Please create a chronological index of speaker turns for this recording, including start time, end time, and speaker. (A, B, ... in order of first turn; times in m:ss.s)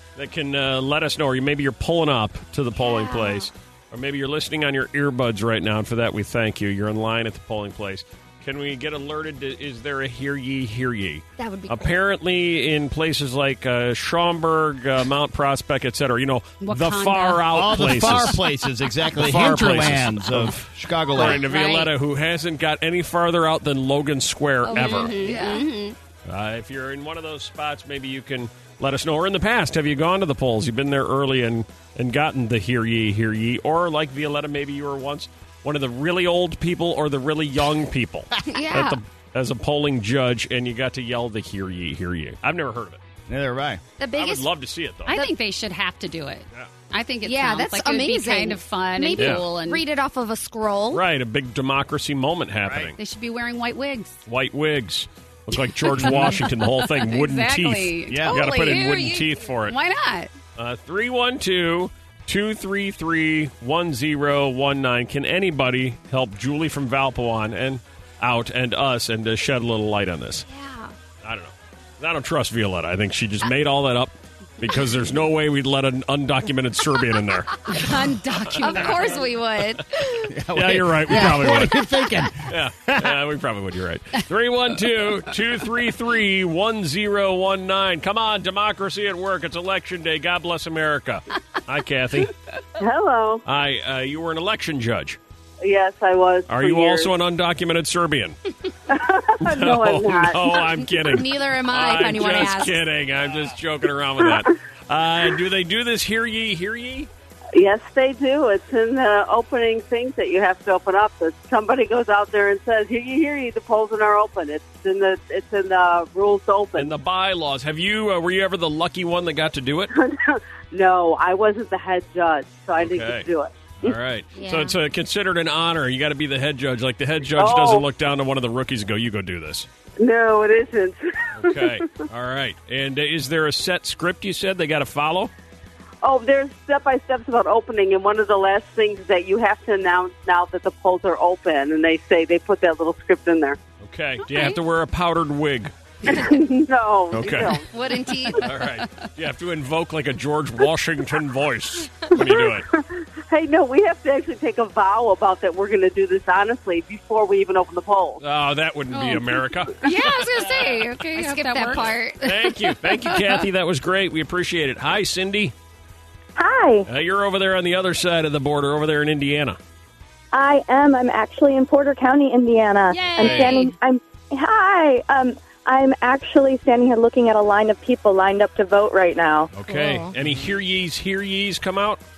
0:00.2-0:18.4 A
0:02.8-0:03.5 B
0:11.4-0:12.0 B
0:16.6-0:18.5 C
0:17.5-0:21.4 D
0:19.1-0:25.2 A
0:21.2-0:21.9 C
0:24.6-0:26.0 C
0:24.7-0:26.0 B
0:26.2-0:43.0 A
0:38.5-0:39.0 B
0:43.3-0:43.8 D
0:44.0-0:44.5 B
0:44.1-0:45.2 A
0:45.1-0:45.4 B
0:45.1-0:49.8 C
0:47.2-0:51.0 B
0:49.2-0:49.4 A
0:50.9-0:53.0 A
0:52.7-0:52.9 D
0:53.0-0:54.2 C
0:54.3-0:59.8 A
0:56.0-0:56.4 D
0:56.0-1:00.3 C
0:58.1-0:58.4 D
1:00.6-1:10.4 A
1:10.5-1:10.9 B
1:11.2-1:17.7 A
1:17.7-1:19.3 C
1:18.4-1:19.2 A
1:18.6-1:20.4 B
1:20.3-1:23.2 D
1:20.5-1:21.8 A
1:21.1-1:22.2 B
1:22.4-1:32.3 A
1:32.8-1:33.4 E
1:33.4-1:35.2 A
1:35.6-1:37.1 E
1:36.5-1:38.4 A
1:38.9-1:40.7 E
1:39.4-1:47.1 A
1:41.0-1:42.8 B
1:47.5-1:56.9 E
1:56.8-1:59.9 A
2:00.0-2:04.0 E
2:02.8-2:03.3 A
2:03.8-2:09.7 A
2:04.4-2:04.8 B
2:07.4-2:07.9 E
2:10.0-2:11.8 E
2:11.4-2:15.3 A
2:16.0-2:23.6 E
2:23.8-2:26.1 A
2:26.1-2:26.4 B
2:26.1-2:28.1 E
2:27.1-2:27.6 A
2:27.7-2:28.5 B
2:28.4-2:32.7 A
2:32.2-2:38.2 E
2:38.2-2:39.8 A
2:38.9-2:42.0 C
2:39.8-2:42.7 B
2:42.2-2:45.6 A
2:43.1-2:43.4 C
2:46.4-2:46.9 F
2:46.9-2:49.6 A
2:50.3-2:59.5 F
2:52.9-2:53.8 C
2:53.2-2:53.6 A
2:59.5-3:02.0 A
2:59.7-3:00.1 B
3:00.2-3:00.5 D